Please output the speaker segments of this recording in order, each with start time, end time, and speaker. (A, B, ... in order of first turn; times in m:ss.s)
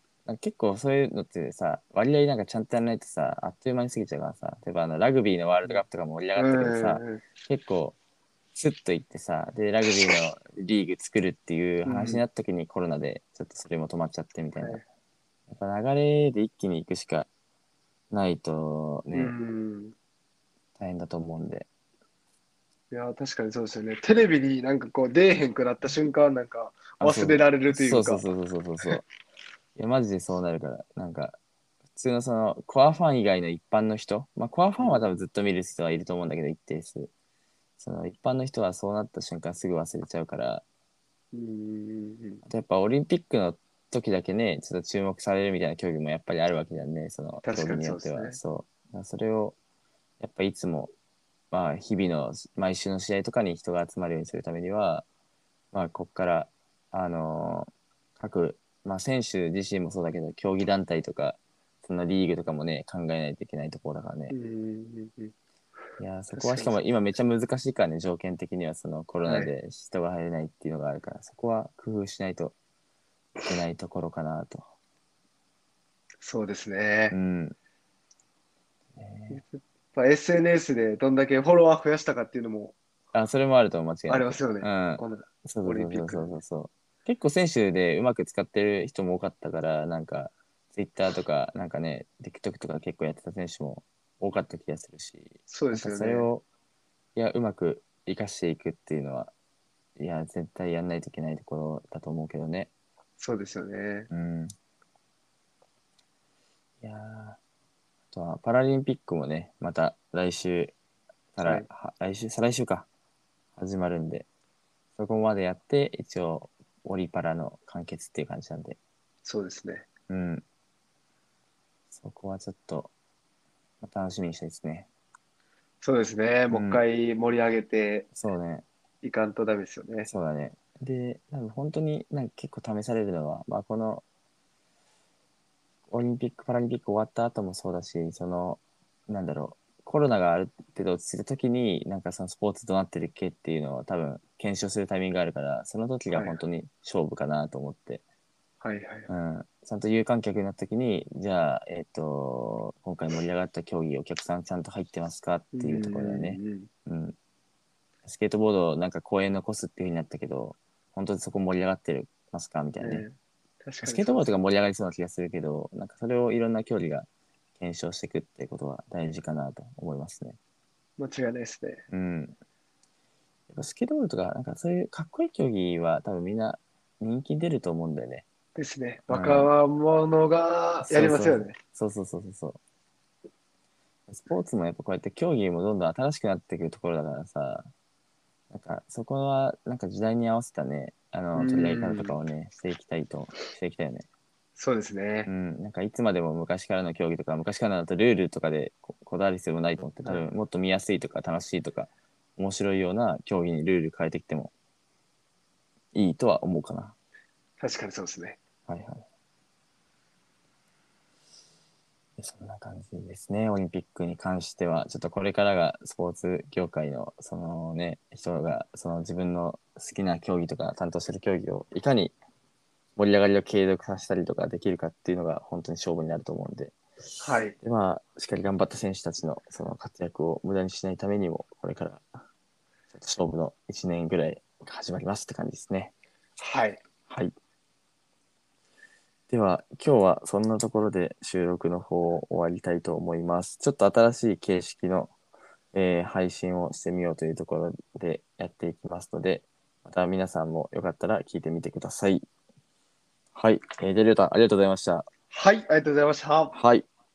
0:00.2-0:08.0 A
0:06.4-0:07.2 B
0:08.5-0:14.8 A
0:11.8-0:12.2 B
0:14.6-0:14.8 B
0:15.5-0:17.3 A
0:18.1-0:19.3 A
0:19.1-0:19.9 B
0:20.8-0:21.7 A
0:22.9-0:28.3 B
0:27.0-0:29.0 A
0:29.8-0:31.4 A
0:31.9-0:37.1 A
0:34.8-0:35.0 B
0:37.8-0:40.6 A
0:41.3-0:42.4 B
0:42.4-0:49.6 A
0:47.4-0:48.4 B
0:50.2-0:50.9 A
0:51.5-0:55.0 A
0:55.7-1:04.3 A
1:04.3-1:05.3 B
1:06.0-1:12.5 A
1:06.3-1:06.8 B
1:09.2-1:09.5 B
1:13.5-1:14.7 A
1:16.2-1:17.2 B
1:17.1-1:17.5 A
1:19.0-1:19.4 A
1:19.3-1:22.8 B
1:23.1-1:36.4 A
1:24.1-1:26.4 B
1:35.5-1:36.3 B
1:37.2-1:39.3 A
1:40.0-1:42.7 A
1:43.2-1:44.1 B
1:44.1-1:44.5 A
1:46.8-1:47.4 A
1:48.1-1:50.7 A
1:51.3-1:52.9 A
1:53.6-1:54.3 A
1:55.0-1:58.8 A
1:59.2-1:59.8 B
2:00.1-2:00.4 A
2:01.9-2:02.9 A
2:03.8-2:04.9 A
2:05.8-2:08.1 B
2:06.5-2:06.8 A
2:08.2-2:08.6 A
2:09.0-2:10.1 B
2:10.0-2:14.0 A
2:15.9-2:28.0 A
2:26.1-2:26.4 B
2:28.6-2:29.1 B
2:29.1-2:37.1 A
2:35.5-2:36.7 B
2:38.0-2:43.0 A
2:42.8-2:44.3 B
2:43.8-2:50.4 A
2:51.0-2:51.8 B
2:51.9-2:52.4 A
2:53.5-2:58.2 A
2:58.5-3:01.6 B
2:59.1-2:59.5 A
3:00.8-3:02.6 A
3:04.1-3:07.7 A
3:08.5-3:14.0 A
3:11.3-3:12.2 B
3:14.6-3:15.3 B
3:15.3-3:24.5 A
3:25.9-3:26.9 A
3:27.6-3:28.4 B
3:28.7-3:29.0 A
3:32.2-3:42.1 A
3:43.0-3:52.1 A
3:47.2-3:47.6 B
3:52.9-3:55.9 A
3:56.4-3:56.8 B
3:57.1-3:57.3 A
3:59.3-4:05.1 A
4:05.7-4:12.2 A
4:13.3-4:15.1 A
4:15.3-4:16.6 B
4:16.5-4:16.8 A